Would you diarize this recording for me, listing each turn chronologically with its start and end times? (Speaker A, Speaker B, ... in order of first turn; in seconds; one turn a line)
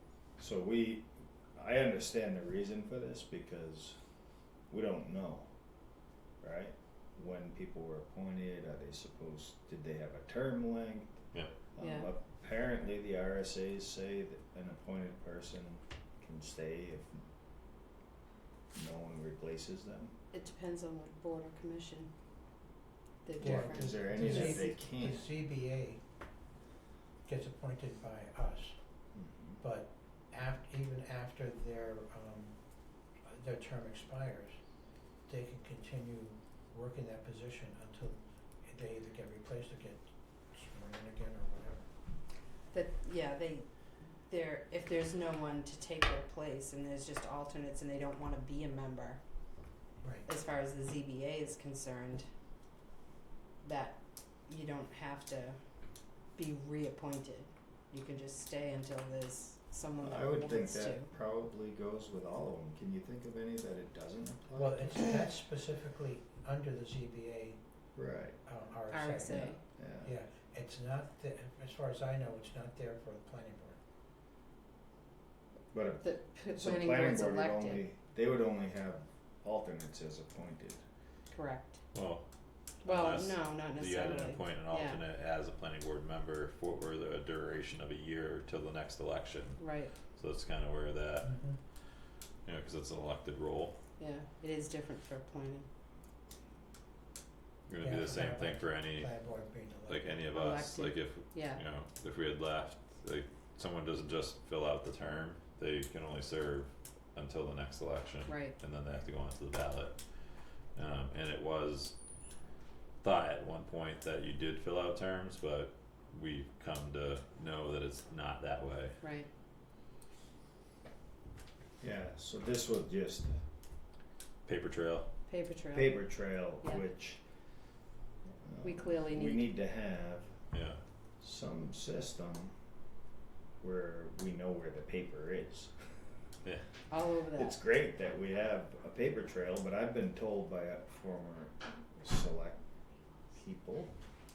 Speaker A: 0.4-4.0
Speaker A: 4.7-5.5
Speaker A: 6.4-11.1
Speaker A: 11.7-17.2
Speaker B: 11.8-12.1
Speaker A: 18.7-20.1
Speaker B: 20.3-22.1
Speaker B: 23.2-24.7
Speaker C: 23.4-26.0
Speaker A: 23.4-25.3
Speaker C: 27.2-28.8
Speaker A: 29.1-29.6
Speaker C: 29.6-32.6
Speaker C: 33.2-34.6
Speaker C: 35.3-41.9
Speaker B: 42.7-43.7
Speaker B: 44.3-49.2
Speaker C: 50.0-50.3
Speaker B: 50.3-52.2
Speaker B: 53.6-55.6
Speaker B: 56.1-61.1
Speaker A: 60.0-65.0
Speaker C: 64.5-67.6
Speaker A: 68.0-68.4
Speaker C: 68.5-73.8
Speaker B: 68.9-69.6
Speaker A: 69.8-70.1
Speaker A: 75.7-80.8
Speaker B: 76.0-77.8
Speaker B: 81.3-81.8
Speaker D: 81.9-82.2
Speaker B: 82.8-85.0
Speaker D: 82.8-91.5
Speaker B: 89.6-90.0
Speaker C: 91.2-91.6
Speaker D: 92.5-93.8
Speaker B: 94.0-95.7
Speaker D: 97.7-99.2
Speaker C: 97.8-100.2
Speaker D: 99.9-112.0
Speaker B: 100.3-101.6
Speaker B: 108.3-108.5
Speaker D: 113.0-119.0
Speaker B: 119.0-119.3
Speaker A: 121.8-123.4
Speaker D: 124.5-125.1
Speaker B: 125.3-126.8
Speaker A: 125.7-127.2
Speaker A: 128.4-130.4
Speaker B: 128.6-129.5
Speaker D: 130.5-130.8
Speaker A: 131.2-132.6
Speaker A: 133.6-136.0
Speaker B: 136.9-137.6
Speaker A: 137.3-142.6
Speaker A: 143.3-143.9